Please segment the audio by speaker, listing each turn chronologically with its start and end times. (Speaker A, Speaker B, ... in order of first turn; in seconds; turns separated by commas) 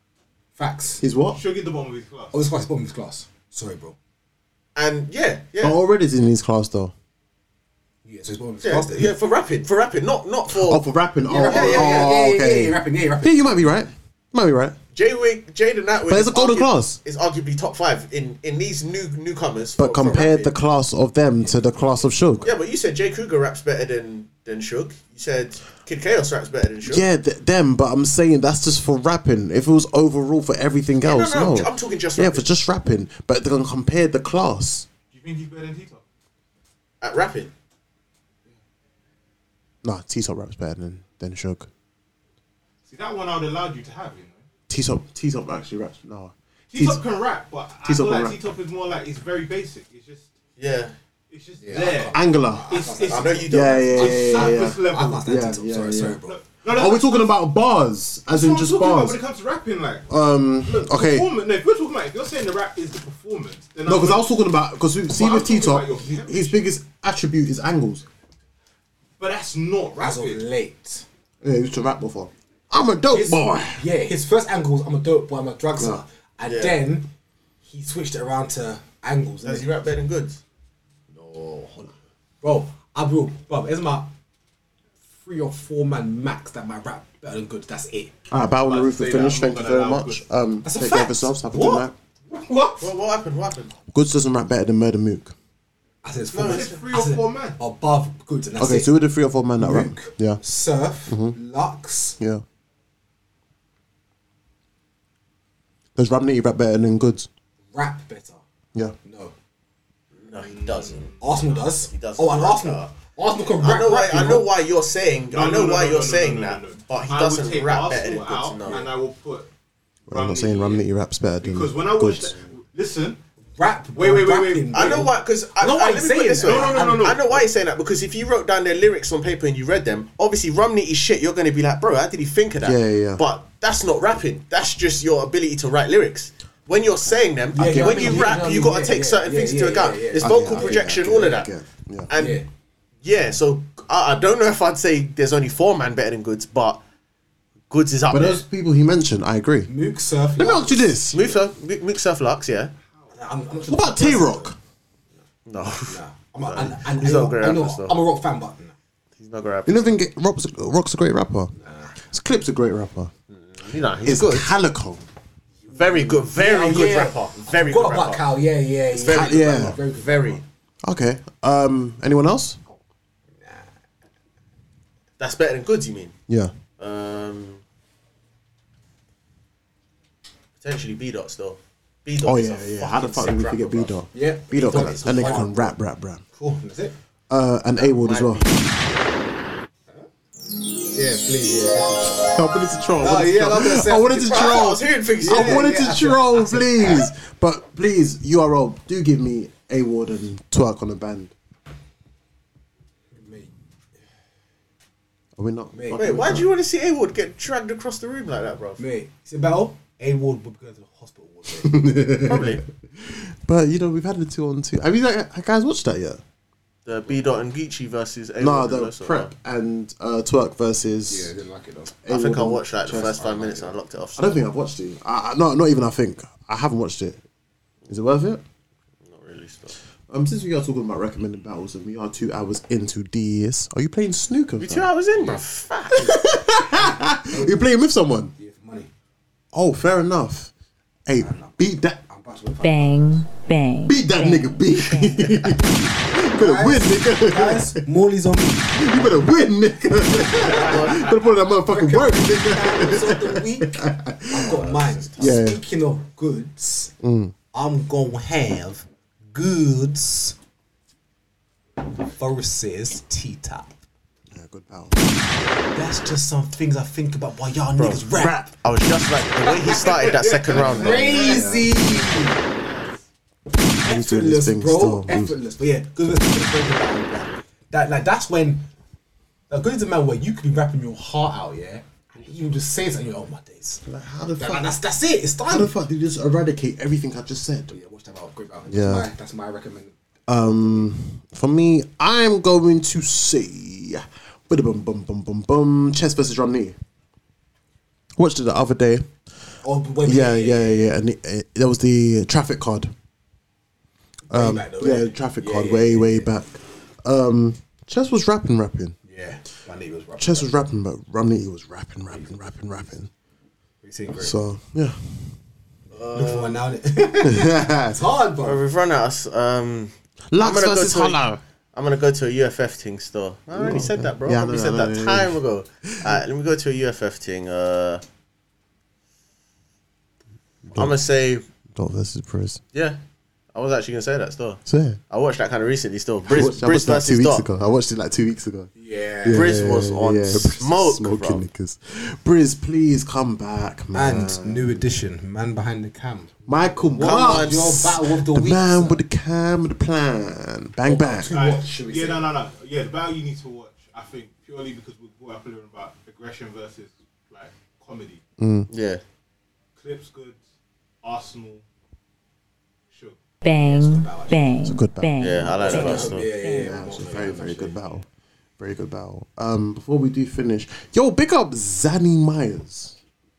Speaker A: 0.6-1.0, Speaker B: 1.0-1.4, Speaker C: 1.3-2.4, Speaker A: 2.3-4.0, Speaker D: 4.8-5.8, Speaker B: 5.6-6.9, Speaker A: 8.1-9.1, Speaker D: 8.6-10.8, Speaker B: 10.5-14.8, Speaker A: 11.3-13.7, Speaker D: 11.4-12.1, Speaker D: 14.9-20.5, Speaker B: 16.1-17.0, Speaker B: 19.8-22.5, Speaker A: 21.4-22.5, Speaker D: 22.4-27.1, Speaker B: 26.8-34.9, Speaker D: 31.0-32.5, Speaker C: 35.1-36.0, Speaker D: 37.0-37.5, Speaker B: 39.8-41.7, Speaker C: 42.9-44.4, Speaker B: 44.7-47.0, Speaker C: 46.7-50.3, Speaker B: 47.8-48.4, Speaker D: 50.6-50.9, Speaker C: 51.3-55.3, Speaker A: 51.6-56.4, Speaker B: 52.1-52.9, Speaker D: 53.1-54.1, Speaker B: 53.5-59.2, Speaker C: 56.3-57.3, Speaker C: 58.3-60.1, Speaker B: 60.1-61.3, Speaker C: 60.6-64.2, Speaker B: 63.9-68.1, Speaker C: 65.1-66.7, Speaker C: 69.2-70.4, Speaker A: 70.0-71.1, Speaker B: 71.4-73.8, Speaker A: 73.1-77.1, Speaker D: 76.4-76.8, Speaker A: 77.6-79.7, Speaker D: 79.4-80.4, Speaker A: 81.1-84.1, Speaker A: 85.2-88.2, Speaker B: 88.3-92.0, Speaker C: 88.5-90.2, Speaker A: 90.6-91.9, Speaker C: 92.3-92.9, Speaker D: 92.8-93.7, Speaker B: 93.9-95.3, Speaker A: 96.0-99.0, Speaker D: 96.3-96.7, Speaker C: 96.3-97.6, Speaker B: 98.6-100.4, Speaker A: 99.6-102.2, Speaker B: 101.1-101.4, Speaker B: 102.2-102.4, Speaker B: 106.0-107.3, Speaker A: 107.7-108.4, Speaker A: 109.0-109.3, Speaker D: 110.1-112.9, Speaker C: 110.4-111.5, Speaker A: 111.2-114.5, Speaker D: 113.6-118.9, Speaker C: 115.3-119.5, Speaker B: 120.1-122.3, Speaker C: 120.1-120.9, Speaker C: 121.4-123.2, Speaker A: 123.6-127.2, Speaker C: 124.0-125.1, Speaker D: 124.7-141.5, Speaker C: 126.4-127.5, Speaker B: 132.6-133.2, Speaker A: 137.5-141.3, Speaker B: 140.2-142.1, Speaker D: 142.1-142.4, Speaker A: 142.1-142.5, Speaker D: 143.0-146.8, Speaker D: 147.7-148.4, Speaker B: 148.1-149.7, Speaker A: 149.7-150.9, Speaker B: 150.4-151.4, Speaker D: 151.1-152.7, Speaker A: 153.1-154.6, Speaker B: 153.7-154.6, Speaker D: 155.5-158.0, Speaker A: 155.9-158.7, Speaker D: 159.2-160.0, Speaker B: 159.7-161.5, Speaker A: 161.6-161.9, Speaker B: 162.1-163.1, Speaker D: 163.3-164.5, Speaker B: 164.0-165.1, Speaker A: 165.6-170.4, Speaker D: 165.7-168.3, Speaker D: 168.9-169.8, Speaker B: 169.0-169.8, Speaker B: 170.8-172.6, Speaker A: 173.4-173.7, Speaker D: 175.2-176.2, Speaker D: 176.8-177.6, Speaker D: 180.6-183.9, Speaker B: 182.2-186.2, Speaker A: 184.1-185.8, Speaker D: 184.5-185.5, Speaker A: 186.3-186.9, Speaker B: 187.3-188.4, Speaker D: 187.8-188.6, Speaker A: 190.9-192.4, Speaker B: 192.3-201.3, Speaker A: 193.0-197.1, Speaker D: 194.0-195.7, Speaker A: 203.1-203.5, Speaker B: 205.4-206.5, Speaker A: 205.7-206.4, Speaker D: 206.0-208.8, Speaker A: 208.8-212.3, Speaker B: 211.7-216.2, Speaker D: 212.2-212.6, Speaker D: 216.9-219.3, Speaker B: 218.4-221.3, Speaker A: 221.1-222.0, Speaker B: 222.0-227.2, Speaker D: 222.1-224.5, Speaker B: 227.9-228.4, Speaker D: 229.0-229.8, Speaker B: 230.1-234.9, Speaker D: 234.6-236.1, Speaker B: 235.9-238.3, Speaker A: 236.5-237.6, Speaker A: 238.4-238.9, Speaker B: 239.5-240.5, Speaker B: 241.1-242.0, Speaker A: 241.2-243.0, Speaker E: 242.6-245.6, Speaker B: 243.9-247.8, Speaker A: 246.3-256.9, Speaker B: 248.7-255.6, Speaker D: 250.6-251.1, Speaker B: 257.0-257.4, Speaker A: 257.5-260.4, Speaker A: 262.1-263.8, Speaker B: 264.3-265.1, Speaker A: 265.7-268.4, Speaker D: 267.8-271.3, Speaker B: 268.1-268.5, Speaker A: 269.4-272.4, Speaker C: 269.7-271.6, Speaker B: 270.8-272.1, Speaker C: 272.4-273.0, Speaker A: 273.8-278.6, Speaker B: 273.9-275.4, Speaker A: 279.5-283.8, Speaker B: 283.8-284.7, Speaker A: 284.4-285.7, Speaker B: 285.5-287.8, Speaker A: 287.7-289.9, Speaker B: 288.7-289.1, Speaker B: 290.3-296.8, Speaker B: 298.2-299.1, Speaker A: 299.6-300.9, Speaker B: 300.0-302.9, Speaker A: 304.3-306.3, Speaker B: 304.3-309.0, Speaker A: 309.1-310.5, Speaker B: 310.2-313.1, Speaker A: 312.1-312.9, Speaker A: 313.8-314.4, Speaker B: 314.2-315.4, Speaker D: 315.9-316.6, Speaker A: 315.9-318.6, Speaker B: 317.2-318.0, Speaker D: 318.4-321.2, Speaker B: 320.3-321.4, Speaker D: 321.7-328.0, Speaker B: 323.5-326.2, Speaker B: 330.7-331.0, Speaker D: 330.8-331.5, Speaker B: 331.8-332.6, Speaker D: 333.5-337.5, Speaker B: 334.7-335.0, Speaker B: 336.3-338.7, Speaker A: 338.8-339.6, Speaker B: 339.2-344.8, Speaker D: 339.3-341.4, Speaker A: 343.9-349.0, Speaker B: 346.5-351.4, Speaker D: 347.0-347.8, Speaker A: 350.8-352.3, Speaker C: 351.3-358.2, Speaker B: 358.4-358.7, Speaker D: 358.7-359.0, Speaker C: 359.8-360.4, Speaker C: 361.0-361.6, Speaker C: 362.9-363.2, Speaker E: 363.4-366.8, Speaker A: 363.6-364.5, Speaker B: 364.6-368.1, Speaker D: 365.2-366.3, Speaker A: 365.6-367.8, Speaker B: 368.6-373.0